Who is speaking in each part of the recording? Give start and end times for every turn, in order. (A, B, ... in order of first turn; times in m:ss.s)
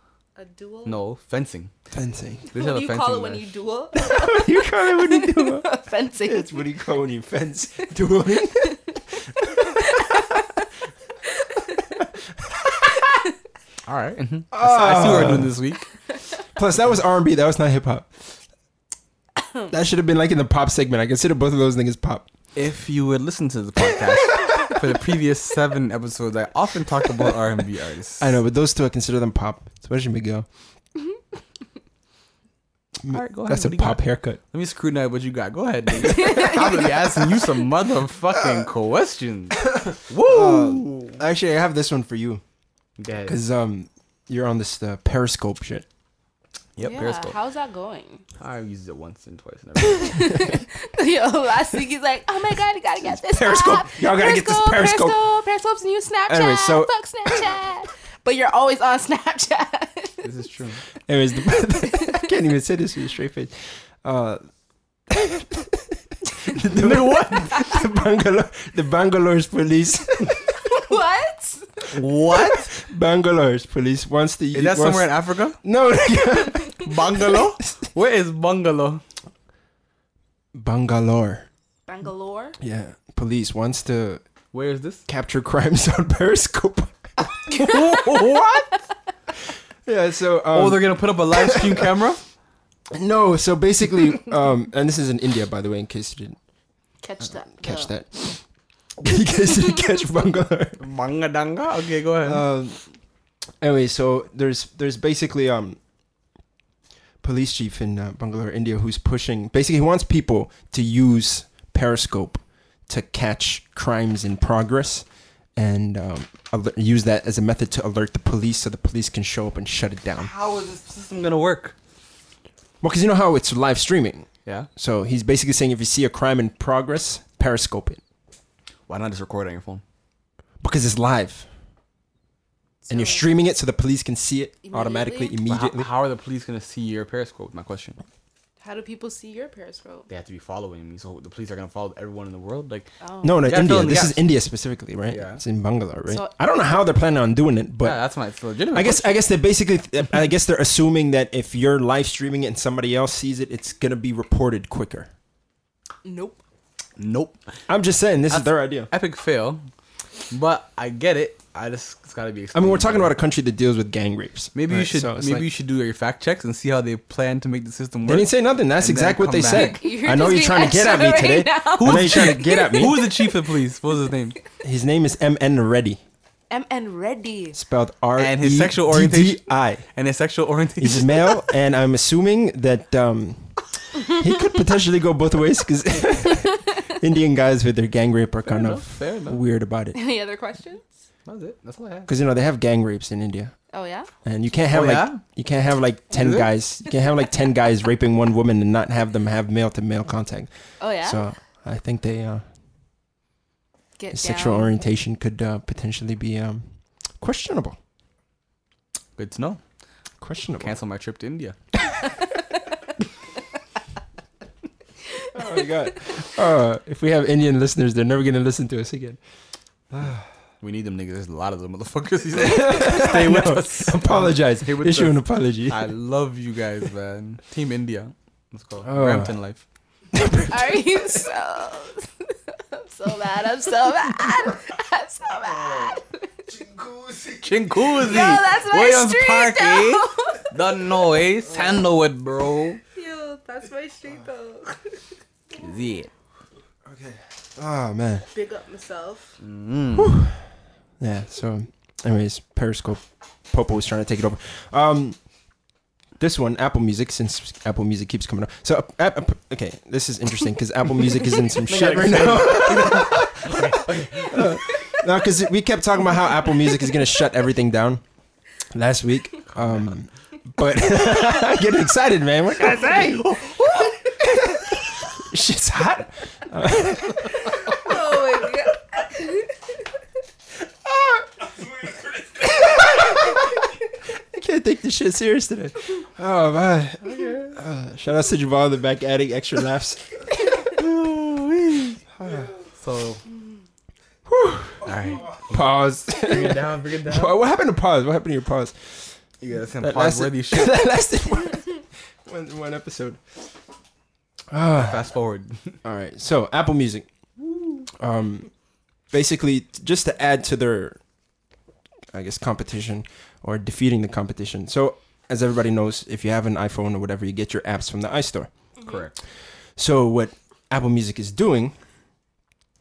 0:00.4-0:01.0 A
0:00.9-0:01.7 B
0:01.9-0:02.5 C
0:02.5-0:06.7 A
0:02.5-0:03.5 B
0:04.0-0:05.7 C
0:06.2-0:10.4 C
0:09.7-0:10.7 A
0:11.3-0:11.9 A
0:12.0-0:12.9 C
0:13.0-0:13.3 A
0:13.9-0:15.9 B
0:14.5-0:15.6 C
0:16.6-0:18.1 C
0:19.7-0:22.3 C
0:22.6-0:28.4 B
0:28.2-0:30.5 C
0:33.0-0:34.4 C
0:33.1-0:41.2 B
0:36.0-0:37.1 A
0:39.6-0:42.4 C
0:43.0-0:43.4 B
0:43.3-0:45.8 C
0:46.8-0:47.4 B
0:46.8-0:48.2 A
0:48.4-0:50.5 B
0:49.8-1:00.3 A
0:53.0-0:55.2 C
0:56.3-0:57.5 C
1:00.2-1:00.8 B
1:01.1-1:04.4 C
1:01.8-1:02.2 A
1:05.1-1:10.5 C
1:06.7-1:07.6 B
1:10.6-1:11.9 A
1:11.9-1:12.7 B
1:12.3-1:15.1 C
1:14.5-1:15.6 B
1:15.6-1:17.4 C
1:16.8-1:19.0 B
1:20.5-1:21.5 C
1:21.9-1:22.6 A
1:22.6-1:24.2 C
1:24.5-1:25.0 B
1:25.1-1:27.1 C
1:27.5-1:28.8 B
1:29.9-1:31.9 C
1:30.5-1:32.2 B
1:32.9-1:36.4 C
1:37.0-1:37.9 A
1:37.5-1:38.4 C
1:39.0-1:40.8 C
1:40.8-1:42.4 B
1:42.2-1:42.8 C
1:43.6-1:45.8 C
1:47.2-2:00.3 C
2:00.2-2:01.8 B
2:02.8-2:08.0 C
2:08.9-2:09.8 B
2:10.6-2:11.5 C
2:12.8-2:13.3 A
2:12.9-2:15.9 C
2:14.6-2:15.4 A
2:15.5-2:18.0 B
2:18.6-2:20.1 A
2:20.1-2:24.2 B
2:23.0-2:23.5 A
2:23.2-2:28.0 C
2:25.1-2:25.4 B
2:26.1-2:26.3 A
2:27.8-2:29.2 B
2:28.7-2:35.1 C
2:36.0-2:36.4 A
2:37.0-2:37.4 B
2:37.7-2:38.9 C
2:38.3-2:39.6 B
2:40.3-2:43.1 B
2:42.5-2:45.5 C
2:44.6-2:49.8 B
2:48.0-2:53.1 C
2:49.5-2:53.2 A
2:51.8-2:54.4 B
2:54.6-2:56.0 C
2:56.5-2:57.6 A
2:57.5-2:59.8 C
2:58.2-3:01.2 B
3:00.8-3:10.0 C
3:08.5-3:09.4 B
3:09.9-3:10.9 A
3:11.3-3:12.1 B
3:12.1-3:13.5 C
3:13.7-3:14.1 A
3:14.2-3:20.5 C
3:14.7-3:15.2 B
3:16.1-3:16.5 B
3:20.8-3:21.2 A
3:21.0-3:22.4 C
3:24.0-3:24.8 A
3:24.1-3:26.7 C
3:27.2-3:27.8 C
3:29.2-3:29.6 B
3:30.2-3:30.7 C
3:30.6-3:31.6 B
3:35.2-3:35.6 A
3:35.3-3:39.2 C
3:39.9-3:40.3 C
3:40.6-3:49.6 B
3:42.3-3:45.9 C
3:48.8-3:49.3 C
3:50.1-3:51.3 C
3:50.5-3:56.3 A
3:56.5-3:57.7 C
3:57.4-4:02.8 B
3:58.0-4:00.5 A
4:02.9-4:05.0 A
4:05.6-4:06.1 B
4:06.9-4:08.3 C
4:08.3-4:09.4 A
4:09.4-4:10.2 B
4:10.0-4:10.4 C
4:11.0-4:15.2 C
4:16.2-4:28.0 C
4:21.6-4:24.6 B
4:28.7-4:33.4 C
4:29.6-4:29.9 B
4:32.6-4:34.0 B
4:34.2-4:37.5 C
4:37.7-4:39.6 A
4:40.8-4:41.3 C
4:42.3-4:50.0 C
4:47.0-4:47.6 B
4:50.7-4:53.2 B
4:52.2-4:52.5 C
4:54.3-4:59.1 C
4:54.8-4:57.4 B
4:59.4-5:00.8 B
4:59.8-5:03.2 C
5:04.5-5:05.1 C
5:04.7-5:05.8 B
5:05.8-5:07.1 C
5:07.9-5:08.5 C
5:09.1-5:11.0 C
5:12.1-5:18.5 C
5:18.8-5:19.2 B
5:19.8-5:21.8 C